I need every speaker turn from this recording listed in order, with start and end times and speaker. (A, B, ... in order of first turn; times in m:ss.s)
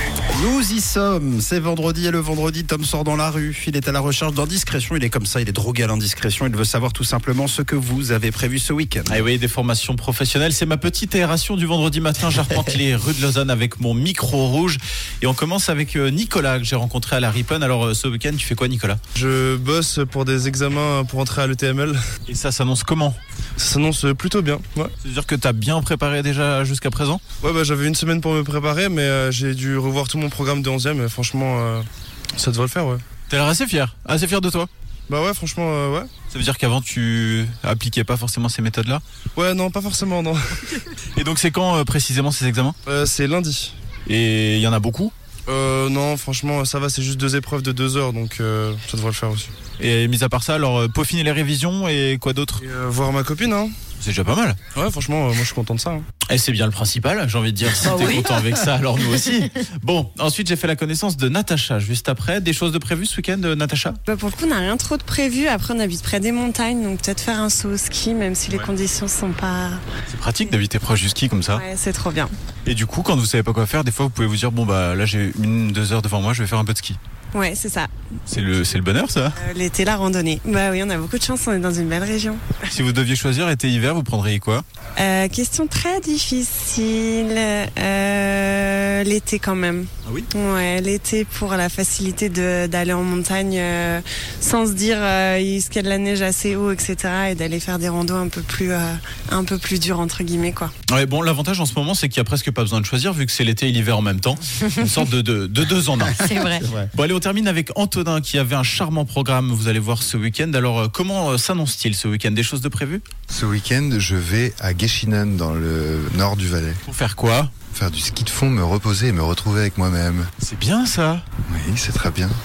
0:00.3-0:09.2 A
0:09.0-0:19.0 B
0:19.1-0:22.0 C
0:22.3-0:23.2 B
0:23.6-0:24.9 C
0:25.0-0:27.2 B
0:27.4-0:31.8 C
0:32.4-0:33.0 C
0:33.3-0:34.7 B
0:35.1-0:36.1 C
0:36.3-0:39.0 B
0:39.4-0:40.4 C
0:41.1-0:42.8 B
0:42.9-0:43.7 C
0:44.1-0:45.1 B
0:45.5-0:49.5 C
0:49.8-0:52.6 B
0:52.6-0:53.7 C
0:54.0-0:54.6 B
0:54.7-0:56.0 C
0:56.3-1:04.0 B
1:04.1-1:09.8 D
1:10.1-1:11.6 B
1:11.5-1:12.3 D
1:12.6-1:17.0 B
1:17.3-1:17.9 D
1:18.3-1:19.4 B
1:19.3-1:22.6 D
1:22.7-1:24.6 B
1:25.0-1:40.7 D
1:40.9-1:46.4 B
1:46.1-1:46.9 A
1:46.9-1:53.0 B
1:53.3-1:56.8 E
1:56.8-1:57.5 B
1:57.7-2:00.3 E
2:00.4-2:01.2 B
2:01.5-2:02.3 E